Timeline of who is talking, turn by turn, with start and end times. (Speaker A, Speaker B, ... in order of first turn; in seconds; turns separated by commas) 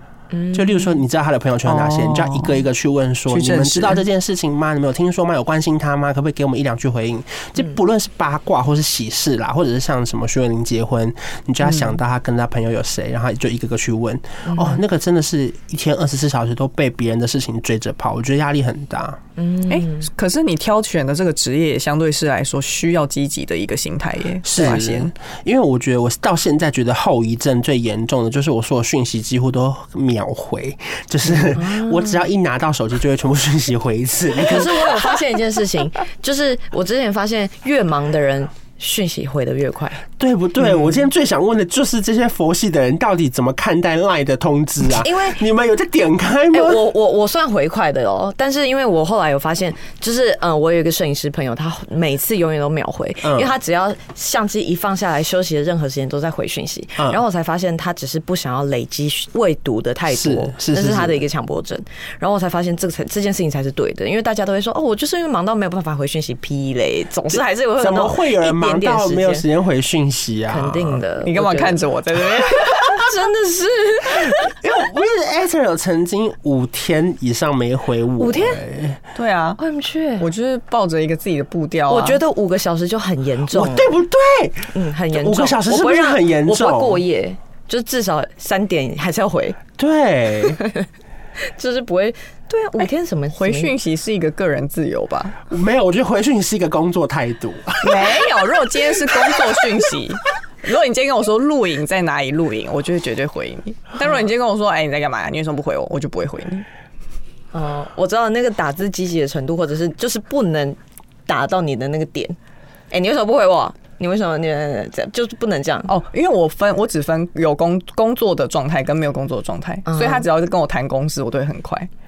Speaker A: 0.3-0.9, Speaker B: 0.5-19.2, Speaker C: 1.6-2.6, Speaker C: 3.3-4.0, Speaker C: 11.6-12.0, Speaker A: 14.4-14.8, Speaker A: 19.4-20.1, Speaker C: 19.7-25.1, Speaker B: 24.4-35.1, Speaker A: 31.5-32.2, Speaker A: 34.4-40.0, Speaker B: 40.2-46.8, Speaker A: 45.0-45.4, Speaker A: 46.5-69.5, Speaker B: 53.2-53.5, Speaker B: 60.1-61.2, Speaker B: 67.3-71.0, Speaker A: 70.5-71.8, Speaker C: 71.2-72.8, Speaker A: 72.3-74.5, Speaker B: 74.2-79.0, Speaker A: 78.2-78.6, Speaker C: 79.1-79.6, Speaker A: 79.6-80.2, Speaker C: 80.2-82.2, Speaker A: 81.9-83.9, Speaker B: 83.5-87.0, Speaker A: 84.7-89.6, Speaker B: 89.8-90.6, Speaker A: 91.5-93.7, Speaker C: 93.3-95.4, Speaker B: 95.5-98.2, Speaker C: 97.8-106.7, Speaker A: 107.5-112.4, Speaker A: 112.9-115.9, Speaker C: 115.9-121.9, Speaker A: 119.8-120.2